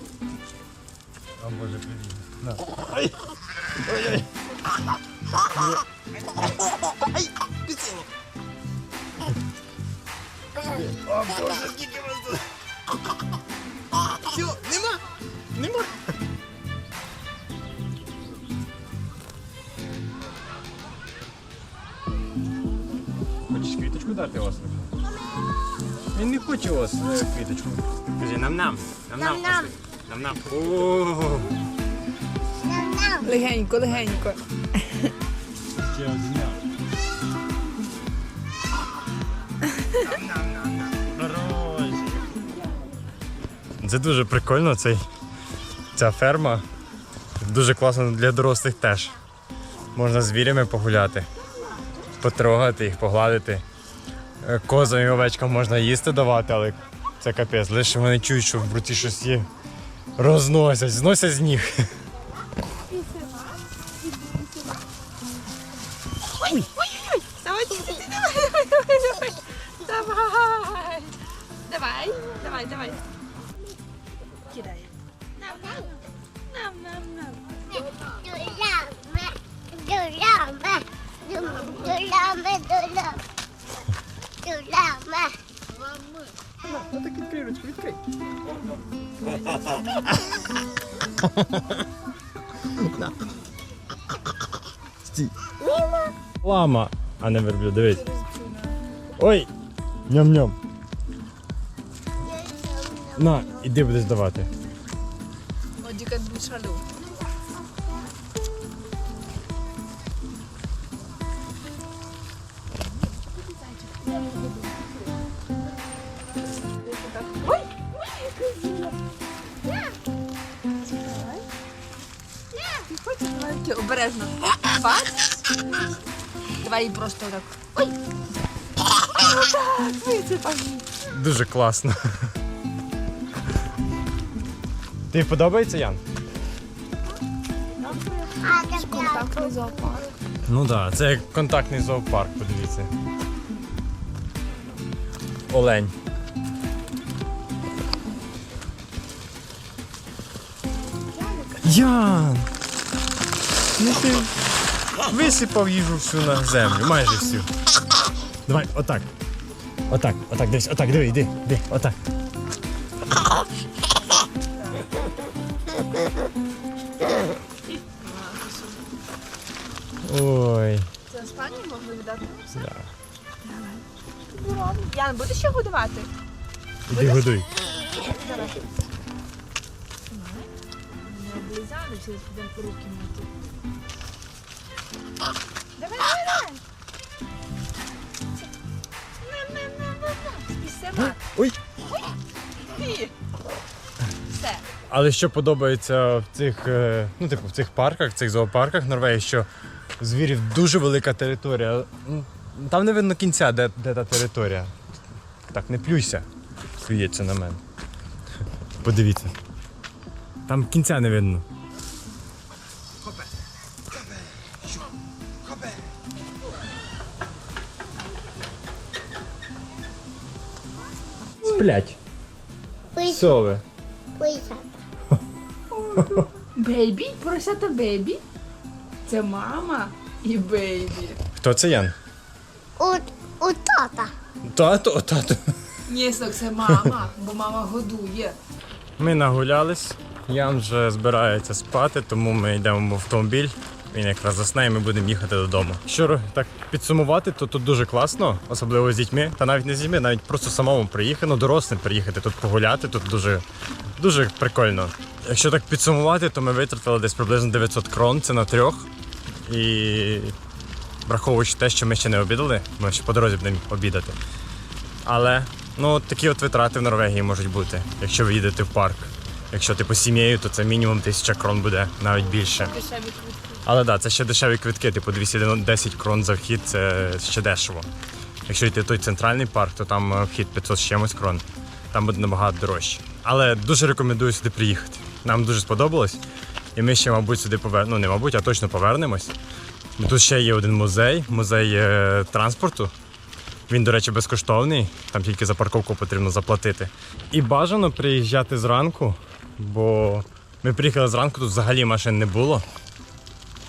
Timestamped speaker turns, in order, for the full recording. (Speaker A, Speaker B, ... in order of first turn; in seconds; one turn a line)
Speaker A: 1.4-3.2
Speaker A: 3.8-4.2
Speaker A: 5.5-5.8
Speaker A: 6.9-8.1
Speaker A: 10.7-12.4
Speaker A: 14.1-15.0
Speaker A: 15.6-16.0
Speaker A: 23.5-24.9
Speaker A: 26.1-31.6
Speaker B: 29.2-29.7
Speaker B: 32.6-33.3
Speaker C: 33.2-35.1
Speaker A: 35.8-36.6
Speaker A: 40.0-42.3
Speaker A: 43.8-45.0
Speaker A: 46.0-46.6
Speaker A: 47.4-49.2
Speaker A: 50.0-51.3
Speaker A: 52.2-53.6
Speaker A: 54.4-59.5
Speaker A: 60.2-61.9
Speaker C: 62.9-63.4
Speaker C: 66.4-73.0
Speaker C: 74.5-74.9
Speaker C: 75.4-75.9
Speaker C: 76.5-77.4
Speaker B: 77.7-83.2
Speaker B: 84.4-85.4
Speaker A: 86.6-88.0
Speaker A: 91.2-91.8
Speaker A: 92.7-93.1
Speaker A: 95.0-95.5
Speaker B: 95.6-96.1
Speaker A: 96.4-98.0
Speaker C: 97.9-98.8
Speaker A: 99.2-99.5
Speaker A: 100.1-100.6
Speaker B: 102.2-103.7
Speaker A: 103.2-104.5
Speaker C: 105.8-106.8
Speaker C: 112.8-115.1
Speaker C: 116.8-119.0
Speaker C: 119.7-120.0
Speaker C: 120.8-121.5
Speaker C: 122.5-125.6
Speaker C: 126.6-128.0
Speaker C: 128.9-130.9
Speaker A: 131.1-132.0
Speaker A: 135.1-136.0
Speaker C: 137.8-140.2
Speaker B: 138.4-139.9
Speaker A: 140.5-142.9
Speaker A: 145.5-145.9
Speaker C: 151.1-151.9
Speaker A: 151.6-152.5
Speaker A: 153.8-154.3
Speaker A: 155.1-157.5
Speaker A: 158.5-159.1
Speaker A: 159.9-162.0
Speaker C: 164.1-164.9
Speaker C: 167.8-168.8
Speaker A: 170.0-170.9
Speaker C: 171.1-172.6
Speaker A: 172.6-172.9
Speaker C: 173.4-176.1
Speaker A: 176.9-177.5
Speaker C: 176.9-178.7
Speaker C: 180.1-183.3
Speaker C: 185.8-186.6
Speaker C: 189.2-191.2
Speaker A: 191.0-191.6
Speaker C: 192.7-193.1
Speaker C: 194.3-194.7
Speaker A: 194.9-199.5
Speaker A: 200.0-204.7
Speaker A: 205.5-206.2
Speaker A: 206.8-207.6
Speaker A: 208.8-209.3
Speaker A: 210.5-211.4
Speaker A: 221.4-222.0
Speaker B: 222.9-223.3
Speaker A: 223.1-223.6
Speaker B: 224.2-224.7
Speaker C: 225.7-228.2
Speaker A: 226.0-226.3
Speaker C: 229.1-231.2
Speaker A: 231.4-231.9
Speaker B: 232.8-234.1
Speaker A: 234.5-235.6
Speaker C: 235.9-238.4
Speaker A: 239.0-253.4
Speaker A: 254.0-258.9
Speaker A: 259.5-260.4
Speaker A: 261.1-264.2
Speaker A: 265.1-272.8
Speaker C: 272.3-273.6
Speaker A: 273.6-277.9
Speaker A: 278.5-286.2
Speaker A: 286.8-289.4
Speaker A: 290.0-292.9
Speaker A: 293.7-302.6